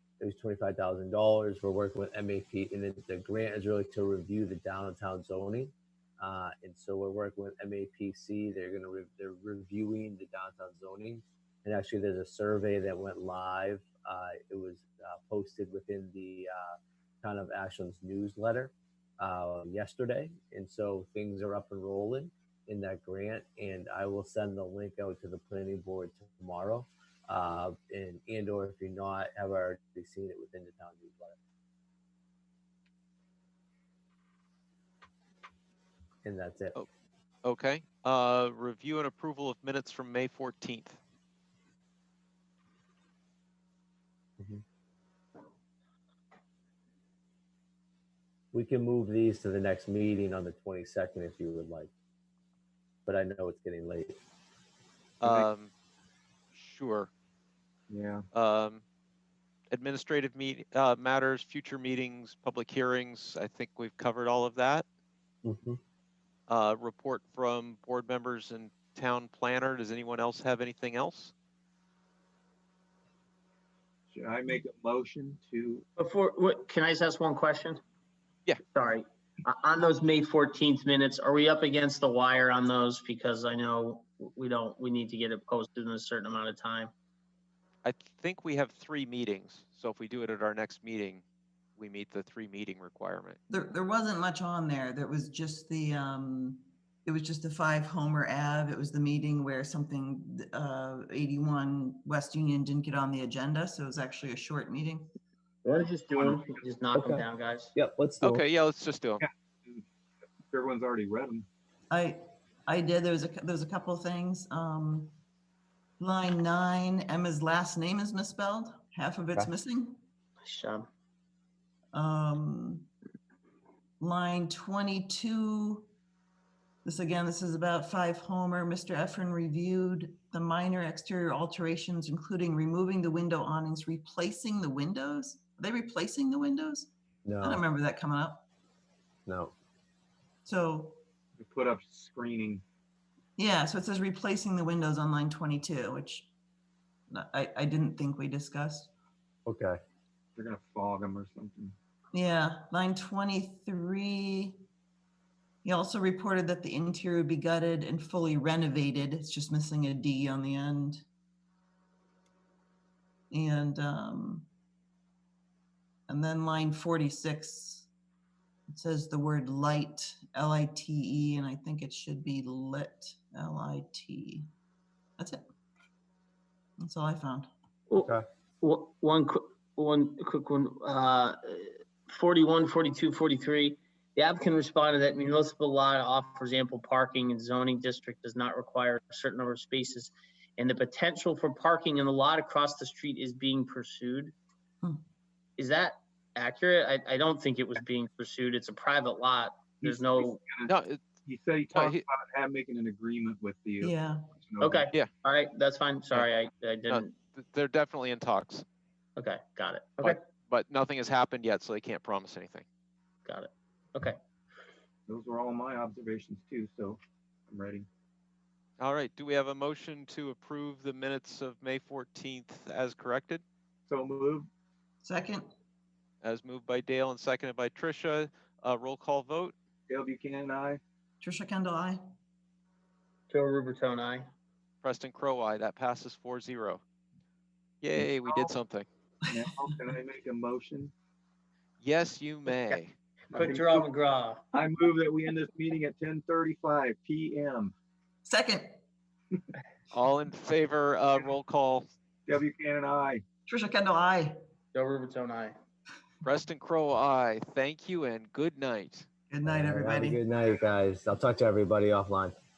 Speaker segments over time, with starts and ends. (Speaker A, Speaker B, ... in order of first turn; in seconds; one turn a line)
Speaker A: 0.2-31.4
Speaker A: 36.2-36.8
Speaker B: 37.4-41.0
Speaker A: 48.5-51.9
Speaker A: 53.0-54.2
Speaker B: 55.2-55.7
Speaker C: 55.2-55.5
Speaker B: 56.5-57.1
Speaker C: 57.9-58.3
Speaker B: 58.3-58.8
Speaker B: 59.7-64.8
Speaker A: 65.4-65.8
Speaker B: 66.5-71.3
Speaker C: 74.1-75.8
Speaker D: 76.0-77.8
Speaker D: 78.7-86.9
Speaker B: 87.8-91.2
Speaker B: 91.8-93.4
Speaker E: 93.5-105.1
Speaker D: 105.6-107.7
Speaker C: 106.1-106.4
Speaker A: 106.9-108.4
Speaker B: 108.2-109.2
Speaker C: 109.2-109.8
Speaker C: 110.5-111.5
Speaker E: 111.9-115.1
Speaker E: 116.0-120.0
Speaker D: 120.4-120.9
Speaker E: 121.9-122.9
Speaker E: 124.0-125.9
Speaker E: 126.8-136.9
Speaker A: 137.2-137.6
Speaker E: 137.4-138.4
Speaker A: 139.3-139.5
Speaker E: 140.4-141.0
Speaker C: 141.4-142.6
Speaker E: 143.4-146.3
Speaker E: 147.1-148.9
Speaker A: 149.4-149.8
Speaker C: 150.3-151.7
Speaker E: 152.1-154.6
Speaker E: 155.6-161.0
Speaker E: 163.3-164.5
Speaker E: 166.1-167.9
Speaker E: 168.7-174.5
Speaker E: 175.2-175.4
Speaker E: 176.8-177.5
Speaker D: 177.9-194.3
Speaker D: 195.6-200.4
Speaker C: 199.8-204.9
Speaker B: 200.7-201.1
Speaker B: 201.7-202.0
Speaker E: 203.8-204.2
Speaker D: 204.6-207.1
Speaker B: 206.9-208.6
Speaker D: 209.2-210.2
Speaker B: 210.0-212.6
Speaker D: 213.2-214.2
Speaker C: 215.1-217.9
Speaker B: 218.8-223.4
Speaker C: 223.9-224.5
Speaker E: 225.0-225.5
Speaker B: 226.2-229.5
Speaker C: 229.9-230.8
Speaker E: 231.2-232.0
Speaker D: 233.3-234.2
Speaker B: 234.8-236.8
Speaker B: 237.8-238.9
Speaker C: 238.2-238.5
Speaker C: 239.2-240.9
Speaker B: 241.8-242.9
Speaker C: 243.3-243.9
Speaker D: 243.3-244.4
Speaker C: 244.5-247.7
Speaker E: 248.2-248.8
Speaker B: 249.9-251.9
Speaker C: 252.3-253.2
Speaker E: 253.5-254.4
Speaker D: 254.7-255.5
Speaker B: 256.2-259.1
Speaker E: 259.3-260.2
Speaker A: 259.4-262.3